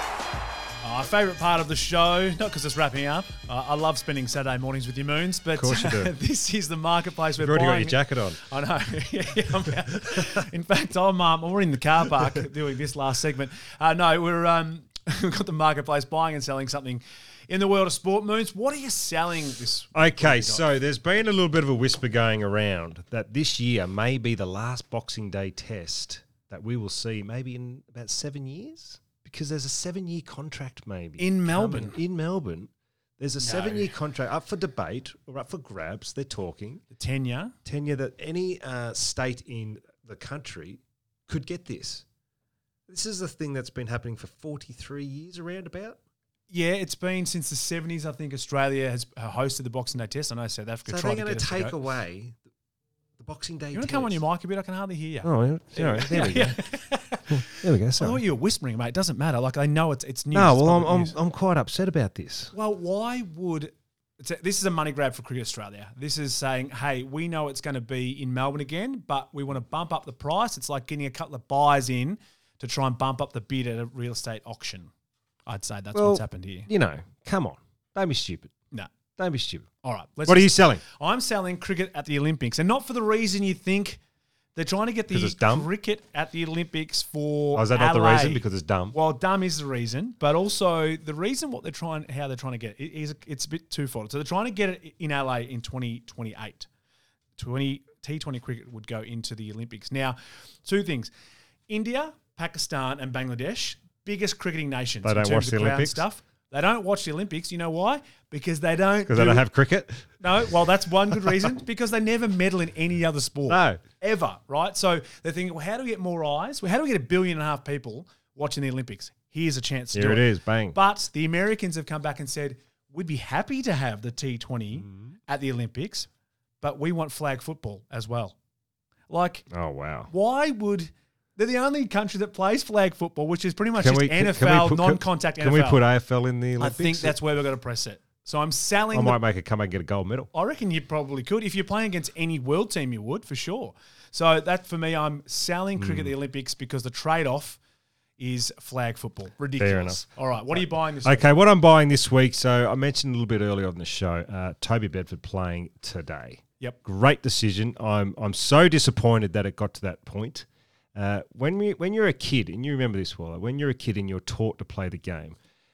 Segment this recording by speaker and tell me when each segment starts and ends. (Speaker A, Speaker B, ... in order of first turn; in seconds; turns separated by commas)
Speaker A: 0.8-20.7, Speaker B: 5.5-6.2, Speaker B: 7.4-8.4, Speaker B: 19.9-36.8, Speaker A: 31.2-32.0, Speaker A: 33.4-33.9, Speaker A: 36.9-37.5, Speaker B: 37.6-42.0, Speaker B: 42.9-46.0, Speaker A: 46.5-51.8, Speaker B: 50.9-52.4, Speaker B: 53.2-54.2, Speaker A: 53.7-61.2, Speaker B: 55.2-56.6, Speaker B: 57.3-58.2, Speaker B: 60.3-62.5, Speaker A: 62.5-74.9, Speaker A: 75.5-76.7, Speaker B: 75.9-78.5, Speaker B: 79.2-79.7, Speaker A: 79.8-84.0, Speaker B: 80.3-80.8, Speaker A: 84.5-96.7, Speaker B: 85.1-85.7, Speaker B: 87.5-89.0, Speaker A: 97.4-101.1, Speaker A: 101.7-109.5, Speaker B: 105.0-106.0, Speaker B: 109.1-110.1, Speaker A: 110.2-126.1, Speaker B: 113.5-113.8, Speaker B: 119.9-120.8, Speaker A: 126.6-128.4, Speaker A: 129.1-129.5, Speaker B: 129.5-130.1, Speaker A: 130.1-135.8, Speaker B: 133.8-137.2, Speaker A: 136.6-139.2, Speaker B: 138.9-140.3, Speaker A: 140.3-147.6, Speaker B: 145.8-146.2, Speaker A: 148.2-151.3, Speaker B: 149.6-165.4